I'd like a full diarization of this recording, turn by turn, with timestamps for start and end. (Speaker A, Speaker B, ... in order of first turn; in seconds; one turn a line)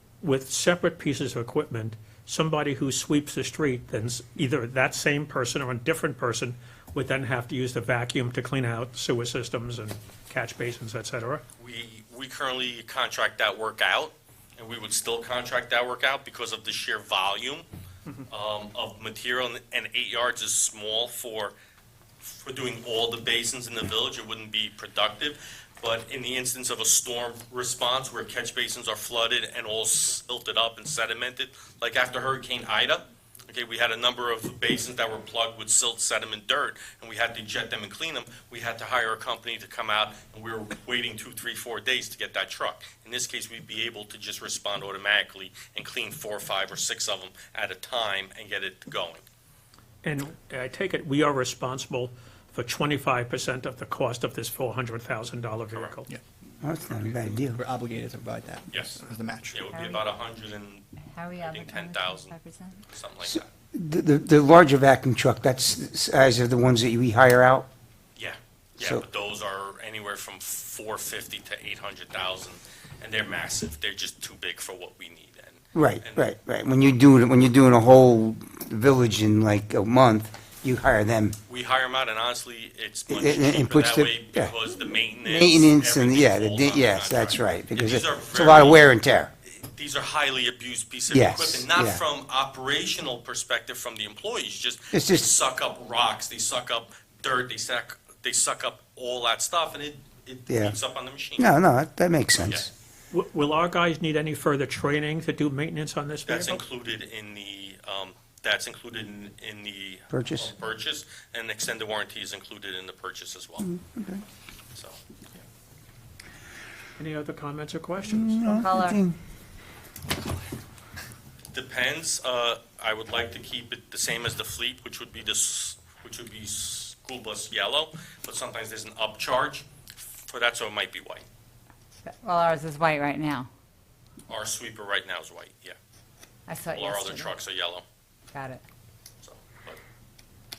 Speaker A: 0.2-11.4
Speaker B: 11.6-17.6
Speaker B: 18.3-21.6
Speaker B: 22.2-49.2
Speaker A: 50.0-56.1
Speaker B: 55.7-56.0
Speaker C: 56.6-57.6
Speaker B: 56.9-57.3
Speaker D: 57.5-59.5
Speaker B: 58.7-62.4
Speaker E: 59.7-60.1
Speaker E: 61.1-62.9
Speaker B: 62.9-63.5
Speaker C: 63.3-67.7
Speaker B: 68.2-76.3
Speaker C: 75.7-81.3
Speaker B: 81.5-88.9
Speaker C: 83.1-84.5
Speaker C: 85.2-89.3
Speaker B: 89.5-101.5
Speaker C: 91.1-92.0
Speaker C: 94.9-95.3
Speaker C: 100.5-100.8
Speaker C: 101.4-102.6
Speaker B: 102.4-102.7
Speaker A: 103.1-106.6
Speaker B: 106.3-113.7
Speaker C: 110.1-110.5
Speaker C: 113.6-114.2
Speaker B: 114.7-115.4
Speaker A: 117.0-118.5
Speaker C: 118.0-119.1
Speaker E: 118.4-119.0
Speaker B: 121.5-129.7
Speaker B: 130.3-131.2
Speaker E: 132.1-133.5
Speaker B: 134.3-135.8
Speaker E: 136.5-137.3
Speaker B: 136.7-137.8
Speaker E: 138.3-138.6
Speaker B: 139.2-139.8